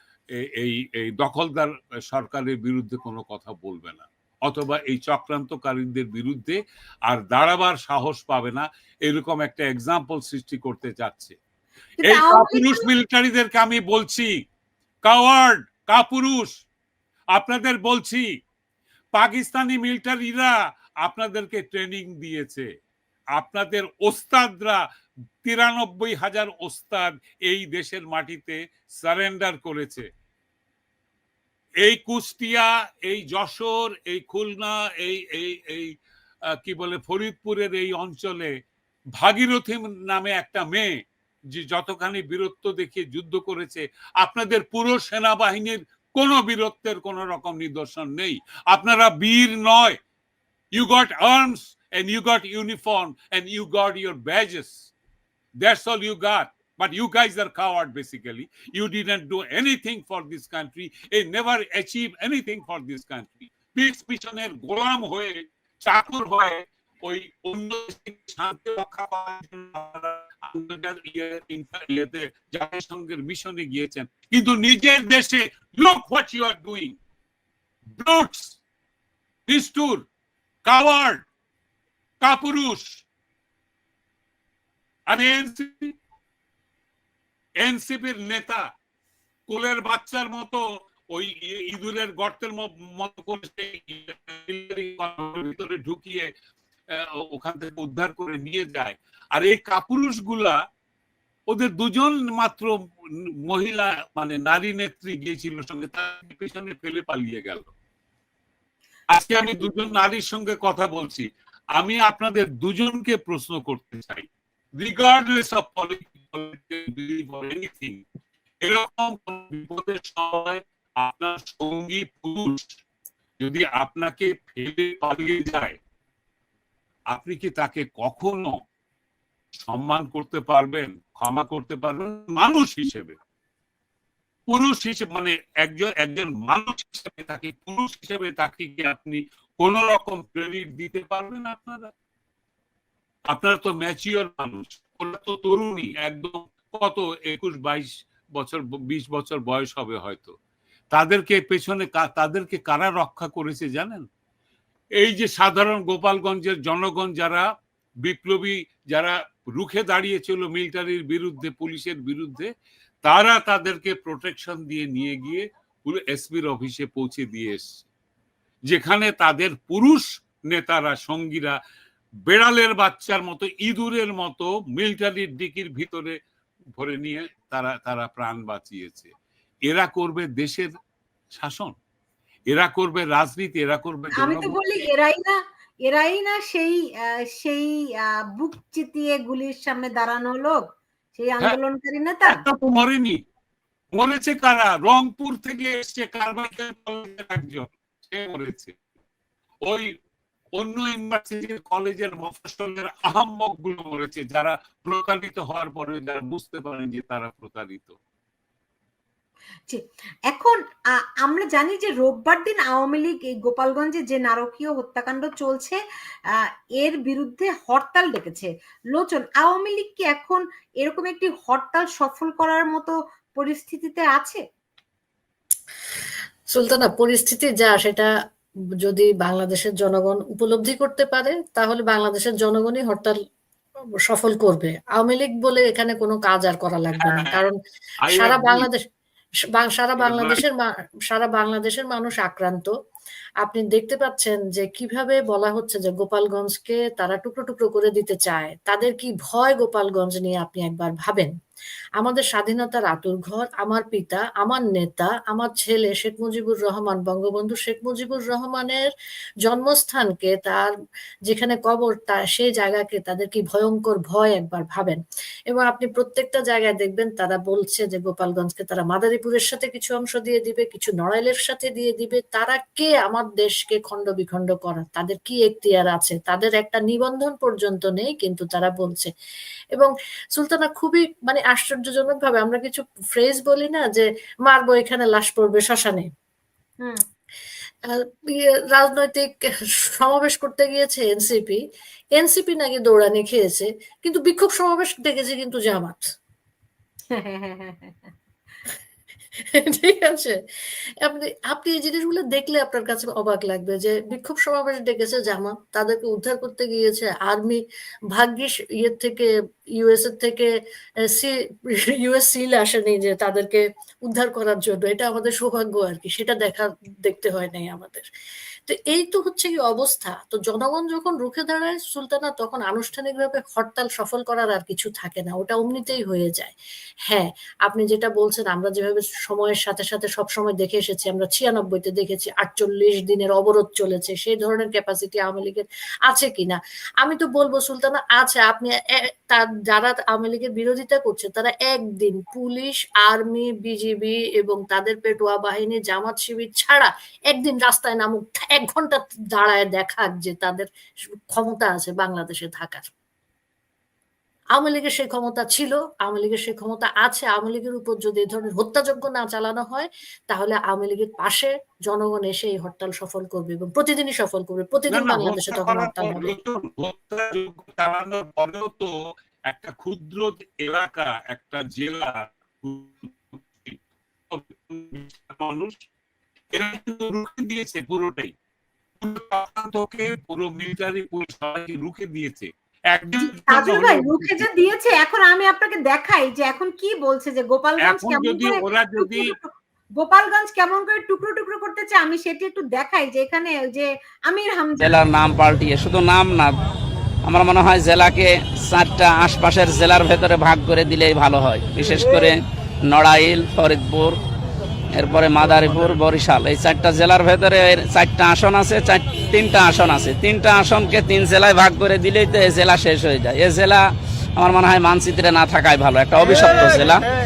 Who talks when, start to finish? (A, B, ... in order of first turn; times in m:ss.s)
0:00.4-0:11.4 A
0:12.0-0:12.8 B
0:12.0-0:14.3 A
0:15.0-0:16.5 A
0:17.3-0:18.2 A
0:19.2-0:20.5 A
0:21.0-0:22.6 A
0:23.4-0:24.8 A
0:25.4-0:30.0 A
0:31.8-0:35.9 A
0:36.6-0:38.5 A
0:39.2-0:40.9 A
0:41.5-0:50.0 A
0:50.7-0:54.9 A
0:55.6-1:17.0 A
1:18.0-1:18.6 A
1:19.5-1:20.0 A
1:20.6-1:21.2 A
1:22.2-1:23.0 A
1:25.1-1:25.9 A
1:27.6-1:28.6 A
1:29.5-1:30.6 A
1:31.1-1:36.3 A
1:36.9-1:40.6 A
1:41.5-1:42.7 A
1:43.4-1:47.7 A
1:49.1-1:54.2 A
1:54.8-1:58.0 A
1:58.6-2:02.8 A
2:03.4-2:05.8 A
2:07.1-2:08.5 A
2:09.6-2:13.1 A
2:14.5-2:21.9 A
2:23.3-2:30.3 A
2:30.9-2:34.0 A
2:35.0-2:37.4 A
2:38.0-2:42.5 A
2:43.0-2:47.8 A
2:48.7-2:51.6 A
2:52.3-2:56.1 A
2:56.8-2:59.1 A
2:59.7-3:00.7 A
3:01.3-3:01.7 A
3:02.5-3:04.6 A
3:04.2-3:06.8 B
3:07.4-3:10.6 B
3:11.1-3:12.4 B
3:12.3-3:13.2 A
3:13.9-3:18.7 A
3:19.6-3:19.9 A
3:20.6-3:27.9 A
3:29.7-3:35.8 B
3:36.3-3:44.4 B
3:46.5-3:48.1 C
3:48.8-3:53.2 C
3:54.0-3:57.5 C
3:57.0-3:57.4 A
3:58.0-3:58.7 A
3:58.1-3:58.8 C
3:59.6-4:02.7 C
4:00.0-4:00.4 A
4:03.4-4:11.3 C
4:12.0-4:18.9 C
4:19.4-4:20.7 C
4:21.2-4:39.1 C
4:39.7-4:46.1 C
4:47.9-4:49.3 C
4:49.9-4:51.6 C
4:52.1-4:56.0 C
4:57.1-4:58.1 B
4:59.5-5:00.4 C
5:01.0-5:07.6 C
5:08.1-5:10.5 C
5:11.1-5:18.0 C
5:18.6-5:26.5 C
5:27.1-5:52.9 C
5:54.5-6:06.4 C
6:04.9-6:08.9 A
6:09.5-6:13.8 A
6:14.3-6:15.8 A
6:16.5-6:18.3 A
6:19.0-6:24.5 A
6:23.2-6:35.0 B
6:27.8-6:29.3 A
6:34.8-6:36.6 D
6:37.2-6:42.3 D
6:42.9-6:44.2 D
6:44.9-6:53.8 D
6:54.4-6:57.0 D